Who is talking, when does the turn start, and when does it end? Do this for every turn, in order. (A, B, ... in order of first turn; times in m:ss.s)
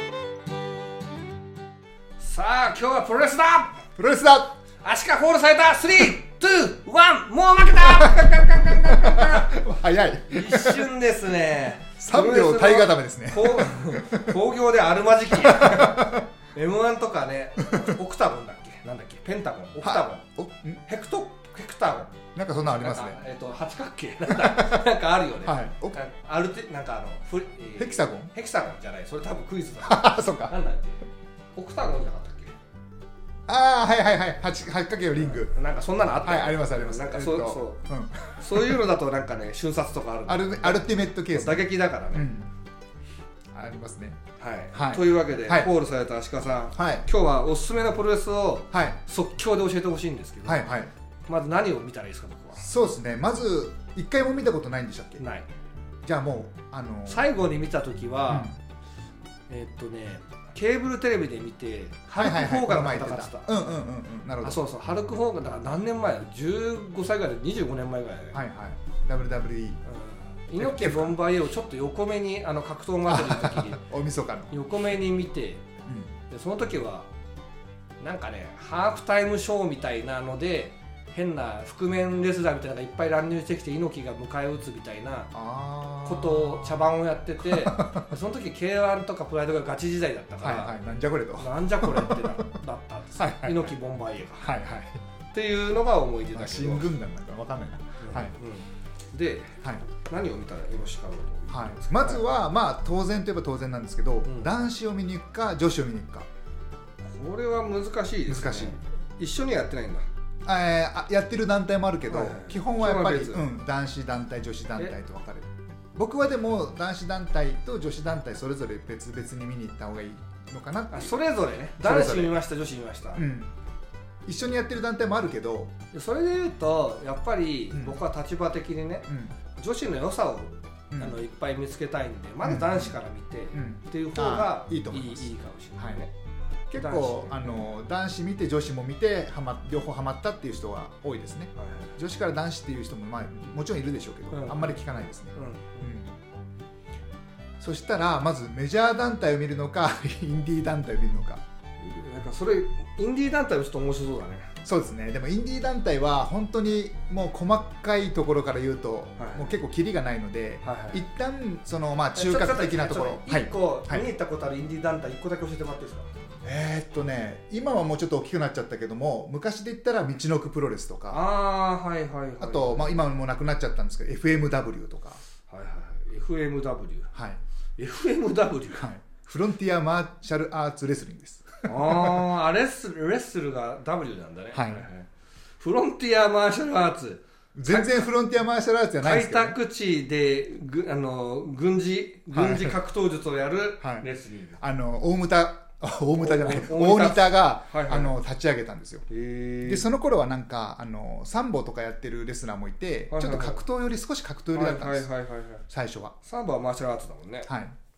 0:02.2-0:03.8 A
0:04.0-0:04.6 B
0:04.8-0:09.6 A
0:07.8-0:10.9 B
0:10.3-0:20.2 A
0:12.0-0:14.3 B
0:15.4-0:16.3 B
0:17.6-0:17.9 B
0:19.8-0:20.8 B
0:20.9-0:22.1 A
0:22.1-0:23.2 B
0:22.6-0:31.0 A
0:24.3-0:24.8 B
0:25.4-0:26.0 B
0:27.8-0:28.3 B
0:29.8-0:30.5 B
0:31.5-0:32.5 A
0:33.5-0:35.5 B
0:35.2-0:37.8 A
0:36.2-0:38.8 B
0:38.4-0:42.3 A
0:40.3-0:42.5 B
0:43.5-0:45.7 B
0:44.4-0:52.7 A
0:46.7-0:47.1 B
0:48.7-0:49.0 B
0:50.4-0:50.9 B
0:52.6-0:55.2 B
0:55.2-0:55.5 A
0:56.0-0:57.3 B
0:57.1-0:58.5 A
0:58.3-0:58.6 B
0:59.5-1:03.5 A
1:02.1-1:04.6 B
1:04.4-1:08.4 A
1:08.3-1:09.8 B
1:09.8-1:13.8 A
1:10.6-1:11.2 B
1:13.0-1:14.5 B
1:14.5-1:15.6 A
1:15.8-1:16.1 B
1:16.3-1:17.1 A
1:18.0-1:25.3 A
1:25.3-1:28.1 B
1:26.0-1:30.8 A
1:30.4-1:32.5 B
1:31.4-1:34.5 A
1:33.2-1:33.7 B
1:34.4-1:35.0 B
1:35.3-1:36.9 A
1:36.3-1:38.4 B
1:38.0-1:42.2 A
1:41.5-1:46.3 B
1:44.2-1:44.5 A
1:47.0-1:50.1 A
1:48.3-1:48.8 B
1:50.4-2:01.1 B
1:52.1-1:53.4 A
2:00.9-2:03.2 A
2:01.8-2:02.4 B
2:03.2-2:03.5 B
2:04.3-2:05.7 B
2:05.9-2:16.1 A
2:07.7-2:08.0 B
2:09.1-2:09.4 B
2:10.9-2:11.2 B
2:12.4-2:13.0 B
2:13.5-2:16.0 B
2:16.7-2:26.2 B
2:16.7-2:17.7 A
2:21.6-2:21.9 A
2:24.3-2:24.8 A
2:25.3-2:25.8 A
2:27.6-2:31.4 B
2:31.8-2:34.5 A
2:34.6-2:44.1 B
2:39.2-2:39.5 A
2:40.6-2:41.0 A
2:42.2-2:46.1 A
2:46.4-2:51.2 B
2:51.1-2:52.9 A
2:52.4-2:55.2 B
2:55.5-2:57.1 A
2:57.1-2:57.4 B
2:57.8-2:58.8 A
2:58.7-3:02.2 B
3:01.6-3:08.1 A
3:04.5-3:04.9 B
3:07.5-3:09.6 B
3:09.0-3:14.6 A
3:12.3-3:12.8 B
3:13.8-3:14.0 B
3:14.6-3:19.0 B
3:16.2-3:18.1 A
3:19.1-3:19.9 A
3:19.6-3:25.1 B
3:23.1-3:23.6 A
3:24.5-3:25.6 A
3:25.7-3:26.1 B
3:26.2-3:27.5 A
3:27.4-3:27.7 B